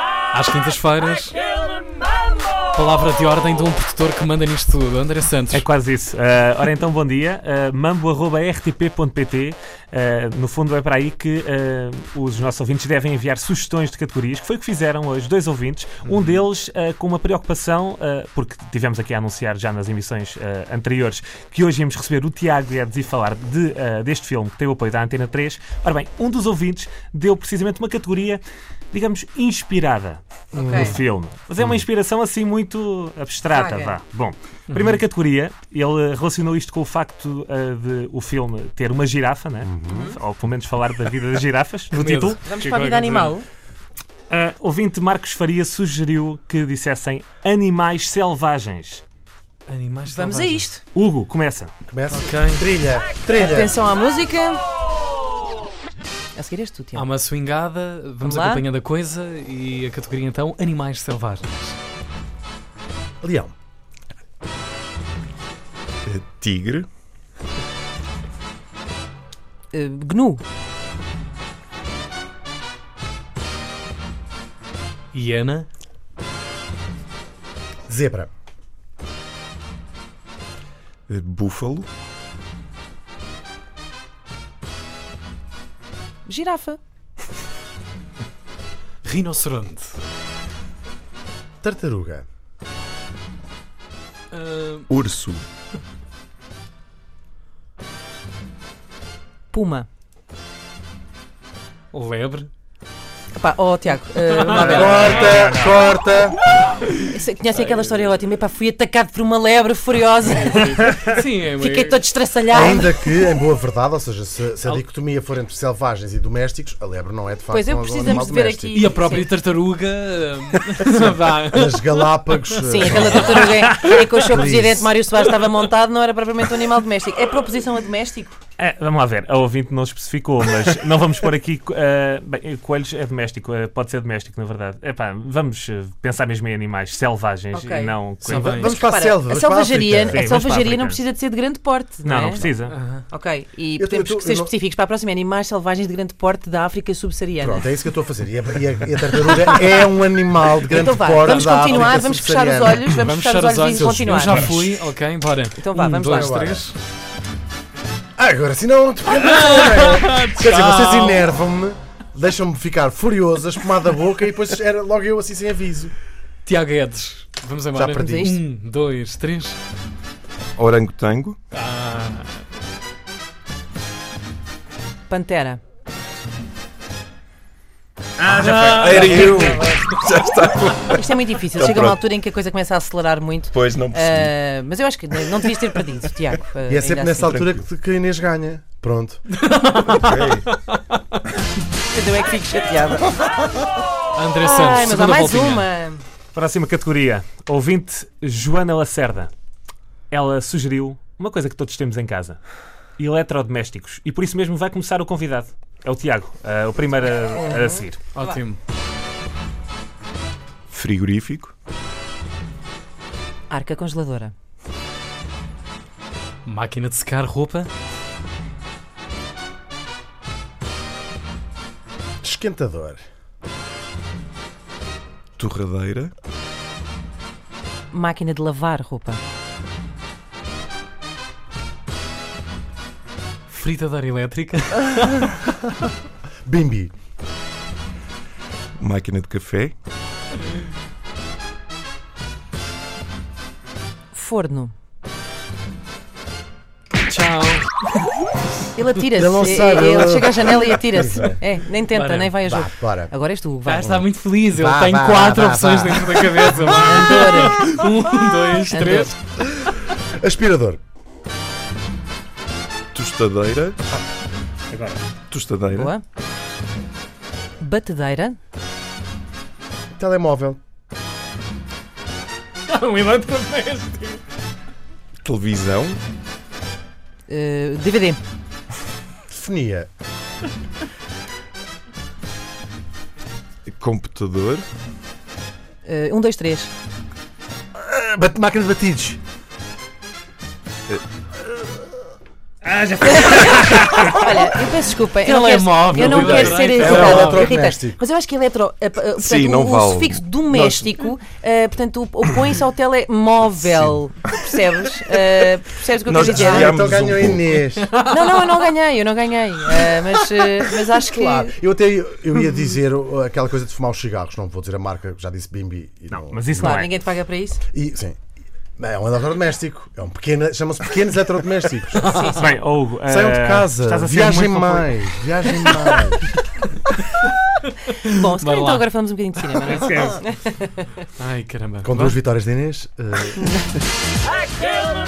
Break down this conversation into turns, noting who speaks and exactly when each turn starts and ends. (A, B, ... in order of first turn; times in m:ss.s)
0:00.3-0:01.4 A
0:02.7-0:05.7 A
0:05.5-0:42.4 B
0:30.5-0:31.0 C
0:30.6-0:31.0 D
0:33.5-0:34.0 C
0:34.7-0:35.0 A
0:39.6-0:40.1 D
0:39.9-0:40.2 C
0:41.9-0:43.4 A
0:42.2-0:43.5 C
0:44.3-0:49.0 B
0:49.7-0:50.7 A
0:50.1-0:50.8 C
0:50.9-0:51.7 B
0:51.9-0:53.8 D
0:52.1-0:52.6 A
0:53.4-0:54.6 C
0:56.4-0:57.1 C
0:56.9-1:01.8 A
0:58.2-0:58.6 C
1:03.2-1:03.5 D
1:06.1-1:06.9 E
1:09.7-1:10.4 C
1:15.1-1:15.7 A
1:17.9-1:18.3 D
1:21.1-1:21.9 E
1:26.3-1:26.8 C
1:29.0-1:30.0 A
1:31.6-1:32.2 D
1:34.3-1:34.9 A
1:34.9-1:35.4 E
1:39.5-1:39.9 C
1:41.9-1:42.5 A
1:43.4-1:45.3 C
1:44.3-1:45.7 A
1:44.5-1:46.4 D
1:45.0-1:45.7 B
1:47.1-1:50.8 C
1:50.2-1:52.1 A
1:51.6-1:52.9 C
1:52.5-1:58.9 D
1:57.5-1:59.3 C
1:58.7-2:02.1 A
2:01.5-2:03.5 D
2:02.6-2:08.4 C
2:02.8-2:03.4 A
2:03.7-2:04.0 B
2:04.2-2:04.9 D
2:08.6-2:18.8 B
2:17.5-2:18.0 C
2:18.2-2:18.8 A
2:18.2-2:20.3 D
2:18.6-2:22.5 C
2:20.1-2:21.0 B
2:22.0-2:22.8 B
2:22.7-2:23.0 A
2:23.1-2:27.7 C
2:23.8-2:24.5 D
2:27.4-2:33.0 D
2:29.2-2:29.8 C
2:30.6-2:34.5 C
2:31.2-2:32.1 A
2:33.0-2:36.8 A
2:33.7-2:34.7 D
2:35.6-2:36.5 C
2:36.0-2:36.6 D
2:38.2-2:45.9 D
2:39.1-2:41.3 A
2:46.4-2:49.6 A
2:47.7-2:48.3 D
2:48.0-2:48.4 C
2:50.6-2:51.4 E
2:51.5-2:52.4 A
2:55.1-2:55.6 C
2:58.2-2:59.8 A
2:58.4-3:02.0 E
2:58.4-2:58.8 B
3:00.9-3:07.5 C
3:03.5-3:04.4 E
3:06.7-3:09.2 D
3:09.4-3:11.0 A
3:09.9-3:10.5 E
3:11.9-3:13.4 C
3:14.2-3:15.6 A
3:14.4-3:16.0 C
3:16.4-3:19.3 B
3:20.1-3:22.4 B
3:23.0-3:28.0 B
3:27.4-3:28.4 C
3:28.2-3:28.6 A
3:30.7-3:31.5 E
3:33.5-3:34.3 C
3:36.4-3:37.7 A
3:42.2-3:43.0 D
3:45.4-3:46.1 E
3:47.9-3:49.2 C
3:53.5-3:55.3 A
3:56.4-3:56.9 D
3:58.8-3:59.7 E
4:04.1-4:04.7 C
4:07.0-4:07.7 A
4:08.8-4:14.1 C
4:09.1-4:11.4 D
4:11.9-4:12.3 A
4:12.4-4:13.1 D
4:13.6-4:19.2 A
4:14.5-4:16.5 D
4:16.7-4:17.8 C
4:18.7-4:19.1 C
4:20.1-4:20.8 D
4:22.9-4:23.8 E
4:24.7-4:25.0 B
4:25.3-4:25.9 E
4:25.7-4:26.0 C
4:27.6-4:28.4 C
4:30.0-4:30.6 D
4:32.7-4:34.2 A
4:35.2-4:36.0 E
4:37.3-4:38.2 C
4:39.3-4:39.9 D
4:43.7-4:44.7 E
4:45.8-4:46.7 C
4:47.8-4:49.2 D
4:53.0-5:06.9 C
4:53.2-4:54.1 A
4:55.2-4:57.6 A
4:55.9-4:58.0 D
4:59.2-5:00.9 E
5:06.0-5:07.4 E
5:06.1-5:07.9 D
5:07.8-5:08.6 A
5:08.0-5:11.5 C
5:11.0-5:16.8 D
5:16.1-5:16.9 B
5:16.6-5:17.6 C
5:17.7-5:18.2 D
5:18.8-5:22.2 D
5:22.0-5:22.5 C
5:22.2-5:25.0 B
5:23.1-5:26.3 D
5:27.7-5:28.8 A
5:28.0-5:30.9 C
5:29.7-5:30.2 B
5:31.2-5:32.2 A
5:31.8-5:33.5 D
5:33.4-5:33.6 C